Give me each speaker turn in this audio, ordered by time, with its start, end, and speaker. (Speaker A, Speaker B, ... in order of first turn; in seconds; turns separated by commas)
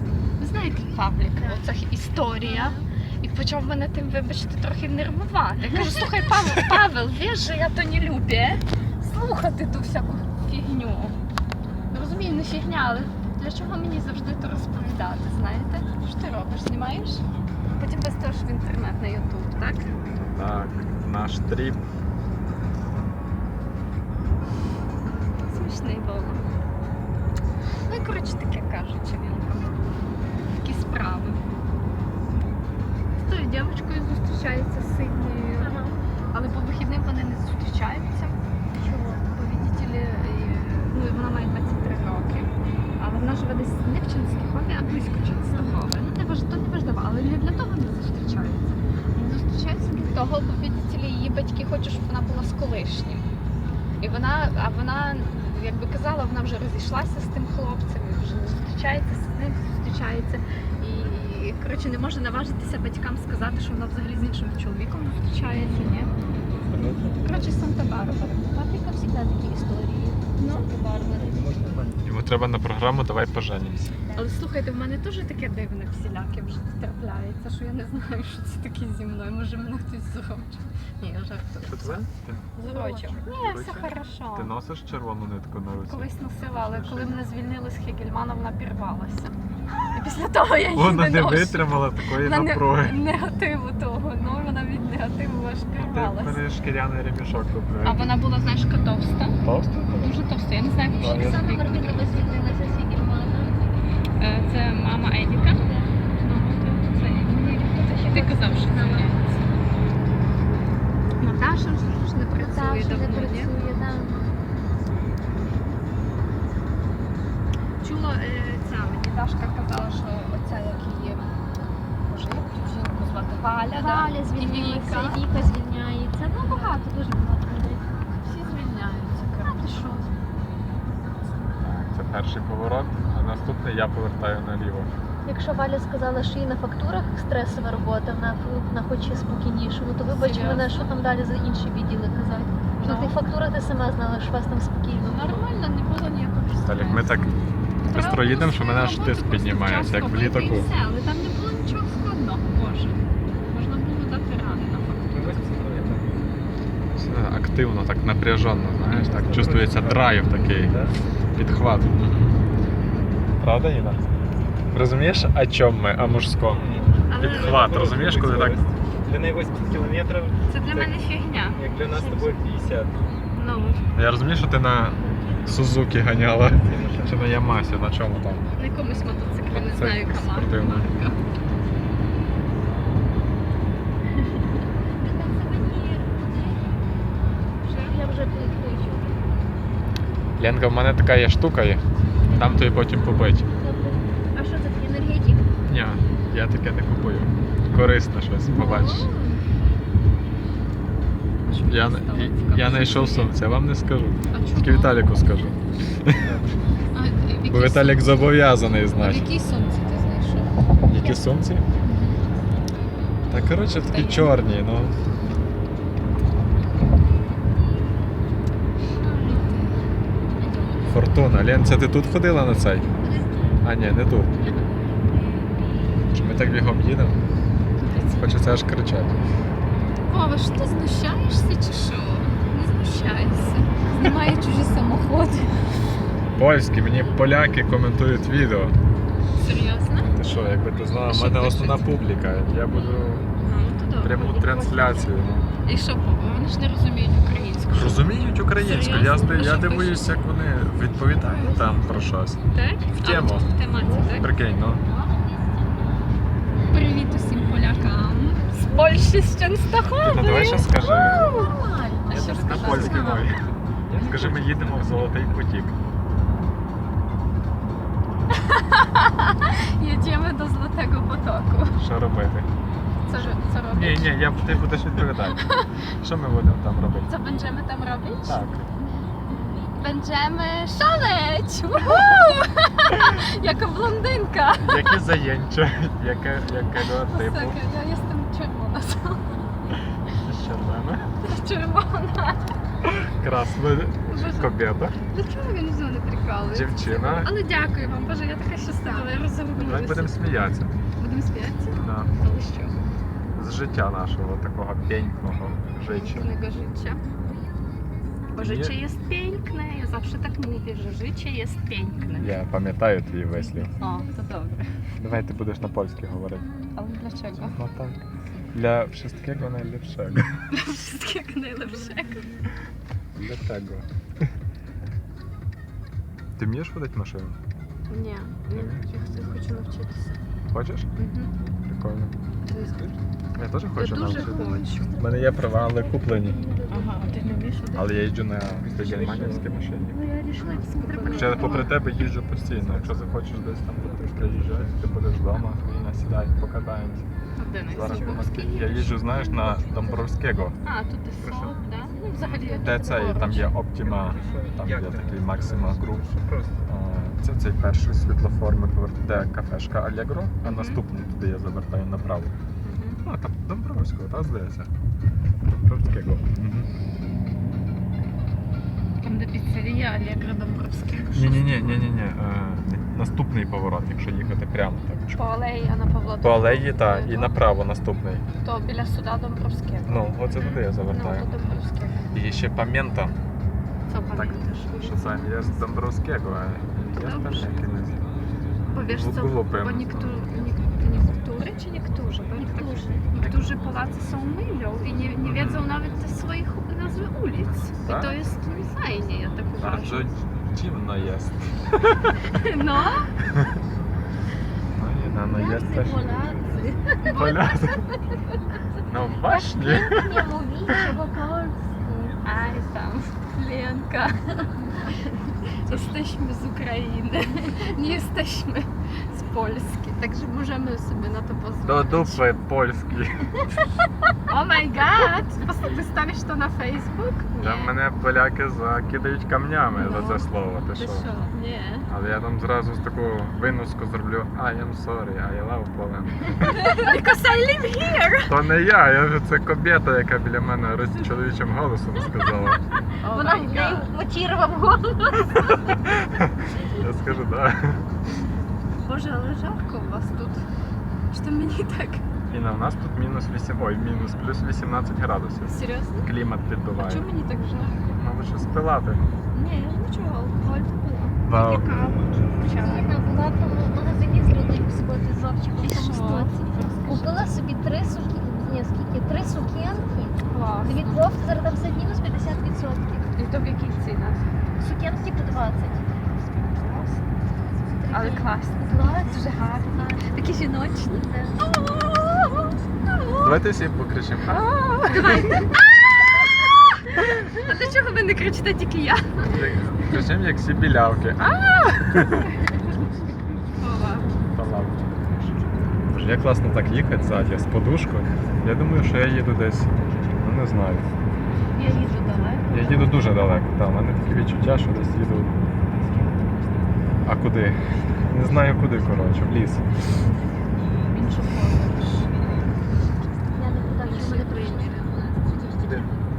Speaker A: 0.4-11.2, Speaker B: 1.4-1.6, Speaker B: 2.2-2.8, Speaker A: 11.9-17.2, Speaker A: 17.7-19.9, Speaker C: 20.1-21.8, Speaker A: 25.1-26.4, Speaker A: 27.9-30.0, Speaker A: 30.6-31.4, Speaker A: 33.2-35.8, Speaker B: 35.5-36.0, Speaker A: 36.3-38.4, Speaker B: 38.8-39.2, Speaker A: 39.0-53.2, Speaker A: 54.0-66.1, Speaker D: 66.7-67.4, Speaker A: 67.2-68.4, Speaker B: 68.0-71.4, Speaker A: 70.3-70.7, Speaker D: 71.1-72.0, Speaker C: 72.0-73.9, Speaker A: 74.1-82.0, Speaker C: 81.7-82.5, Speaker A: 82.6-84.5, Speaker B: 82.6-83.2, Speaker C: 83.2-87.2, Speaker A: 85.8-89.3, Speaker A: 89.9-96.4, Speaker C: 90.7-93.0, Speaker C: 95.8-98.1, Speaker A: 97.8-102.0, Speaker C: 99.4-100.2, Speaker C: 101.0-101.4, Speaker B: 101.0-103.6, Speaker A: 104.2-105.6, Speaker B: 105.5-105.9, Speaker A: 106.2-109.3, Speaker B: 107.7-109.3, Speaker A: 111.2-113.5, Speaker B: 112.4-114.5, Speaker A: 117.8-121.3, Speaker A: 122.1-125.2, Speaker B: 123.7-127.8, Speaker A: 126.4-126.9, Speaker A: 128.2-130.1, Speaker C: 131.6-134.9, Speaker B: 135.2-145.4, Speaker A: 140.1-140.9, Speaker A: 142.8-143.2, Speaker A: 145.0-147.2, Speaker C: 146.6-150.7, Speaker A: 147.8-155.4, Speaker D: 155.1-156.2, Speaker C: 156.9-160.7, Speaker A: 158.9-159.2, Speaker D: 159.0-161.0, Speaker C: 161.3-162.1, Speaker C: 163.4-164.0, Speaker C: 164.7-166.6, Speaker D: 166.3-170.4, Speaker A: 167.1-167.7, Speaker C: 167.2-168.6, Speaker A: 170.5-172.2, Speaker D: 171.6-173.0, Speaker A: 173.3-173.8, Speaker C: 173.9-178.4, Speaker D: 176.6-177.3, Speaker A: 178.6-181.2, Speaker C: 179.5-180.9, Speaker B: 185.0-186.3, Speaker A: 187.6-188.0, Speaker B: 187.8-189.2, Speaker C: 190.4-193.5, Speaker B: 192.3-192.6, Speaker B: 193.6-195.5, Speaker C: 195.7-199.1, Speaker B: 198.6-199.4, Speaker A: 198.6-199.0, Speaker A: 201.4-203.3, Speaker C: 201.7-206.2, Speaker A: 204.3-205.0, Speaker D: 206.2-206.5, Speaker A: 206.9-208.4, Speaker C: 207.5-209.3, Speaker A: 209.0-210.5, Speaker C: 210.8-211.6, Speaker B: 211.0-211.2, Speaker A: 211.9-212.2, Speaker C: 213.3-214.9, Speaker A: 213.8-214.3, Speaker A: 219.0-219.8, Speaker B: 220.4-220.7, Speaker C: 220.8-222.9, Speaker C: 223.6-224.3, Speaker C: 226.1-227.2, Speaker A: 227.8-228.4, Speaker C: 228.2-229.2, Speaker A: 230.1-235.6, Speaker C: 236.3-238.8, Speaker A: 239.3-240.1, Speaker C: 239.9-243.3, Speaker A: 241.1-241.9, Speaker A: 243.4-245.1, Speaker C: 244.0-245.4, Speaker A: 245.6-250.2, Speaker C: 247.7-252.4, Speaker B: 251.2-252.0, Speaker A: 252.5-254.3, Speaker C: 253.0-253.6, Speaker B: 253.8-255.0, Speaker C: 254.1-254.8, Speaker A: 256.7-261.6, Speaker C: 259.9-261.3, Speaker B: 260.7-263.3, Speaker A: 262.1-263.4, Speaker C: 262.1-263.5, Speaker D: 263.9-265.2, Speaker C: 264.0-265.7, Speaker A: 268.3-271.8, Speaker C: 271.8-272.5, Speaker A: 273.1-275.7, Speaker C: 273.7-277.1, Speaker A: 277.1-278.4, Speaker C: 278.2-278.7, Speaker A: 279.8-285.0, Speaker C: 284.6-287.6, Speaker A: 286.8-289.4, Speaker C: 290.1-291.1, Speaker A: 291.2-292.5, Speaker C: 292.8-295.0, Speaker A: 294.1-294.5, Speaker A: 295.1-300.2, Speaker C: 296.5-297.3, Speaker C: 299.6-300.7, Speaker A: 301.0-302.8, Speaker C: 301.7-302.1, Speaker C: 303.3-306.3, Speaker A: 305.9-307.0, Speaker A: 308.3-312.3, Speaker C: 308.4-308.8, Speaker C: 312.1-313.7, Speaker A: 313.8-314.7, Speaker C: 315.0-316.5, Speaker A: 316.7-317.6, Speaker C: 317.3-318.0, Speaker C: 318.5-320.3, Speaker A: 320.5-322.4, Speaker C: 323.2-323.9, Speaker C: 326.4-327.4, Speaker A: 327.9-330.2, Speaker C: 328.5-328.8, Speaker C: 330.5-330.9, Speaker A: 331.0-331.3, Speaker C: 331.6-332.1, Speaker A: 332.4-332.8, Speaker C: 333.3-336.4, Speaker A: 333.8-334.9, Speaker B: 334.2-337.2, Speaker A: 336.7-337.9, Speaker C: 337.7-340.0, Speaker D: 338.6-339.5, Speaker B: 339.9-341.7, Speaker A: 340.4-341.8, Speaker C: 341.1-347.1, Speaker D: 342.6-343.1, Speaker D: 344.0-344.8, Speaker A: 347.4-349.0, Speaker C: 347.7-350.6, Speaker D: 347.8-348.3, Speaker A: 350.6-353.5, Speaker D: 351.2-351.5, Speaker B: 352.1-353.4, Speaker C: 352.2-356.1, Speaker D: 353.8-356.7, Speaker C: 356.7-362.3, Speaker A: 360.4-360.8, Speaker A: 362.6-363.0, Speaker C: 363.0-364.7, Speaker C: 365.6-366.7, Speaker A: 369.0-371.9, Speaker C: 371.1-375.1, Speaker A: 375.1-377.4, Speaker C: 376.2-378.2, Speaker A: 378.4-382.1, Speaker C: 379.8-381.3, Speaker C: 382.1-383.1, Speaker A: 383.9-385.7, Speaker C: 384.1-388.0, Speaker A: 386.9-387.6, Speaker A: 388.7-400.1, Speaker C: 388.8-390.2, Speaker B: 392.6-392.9, Speaker C: 393.2-393.6, Speaker C: 395.2-395.7, Speaker C: 397.8-398.2, Speaker C: 399.6-402.1, Speaker A: 402.2-403.1, Speaker C: 404.7-406.0, Speaker B: 405.3-406.9, Speaker A: 407.0-407.6, Speaker C: 407.0-407.8, Speaker C: 408.8-410.1, Speaker B: 409.2-412.2, Speaker A: 412.2-414.8, Speaker A: 415.5-422.2, Speaker C: 421.6-423.4, Speaker A: 424.3-427.7, Speaker C: 427.4-431.1, Speaker A: 429.7-431.9, Speaker C: 431.9-436.6, Speaker A: 436.4-438.4, Speaker C: 438.2-442.6, Speaker A: 443.0-443.9, Speaker B: 443.1-445.5, Speaker C: 445.7-447.8, Speaker A: 448.8-450.4, Speaker A: 451.1-452.0, Speaker C: 452.3-457.1, Speaker A: 455.4-456.1, Speaker A: 456.8-457.8, Speaker C: 457.9-459.0, Speaker A: 459.3-463.0, Speaker C: 461.2-461.7, Speaker B: 462.4-473.2, Speaker A: 465.6-466.4, Speaker A: 470.3-471.2, Speaker A: 473.1-474.2, Speaker B: 474.6-475.9, Speaker A: 476.5-477.0, Speaker B: 477.8-480.2, Speaker A: 477.9-483.2, Speaker B: 480.9-481.4, Speaker C: 483.2-484.5, Speaker A: 484.3-486.2, Speaker A: 486.9-489.3, Speaker C: 489.2-492.3, Speaker A: 493.6-494.1, Speaker C: 494.2-495.4, Speaker C: 495.9-500.9, Speaker A: 501.5-503.0, Speaker C: 502.5-505.3, Speaker C: 507.0-509.6, Speaker A: 510.9-512.1, Speaker B: 513.3-514.8, Speaker A: 513.8-515.1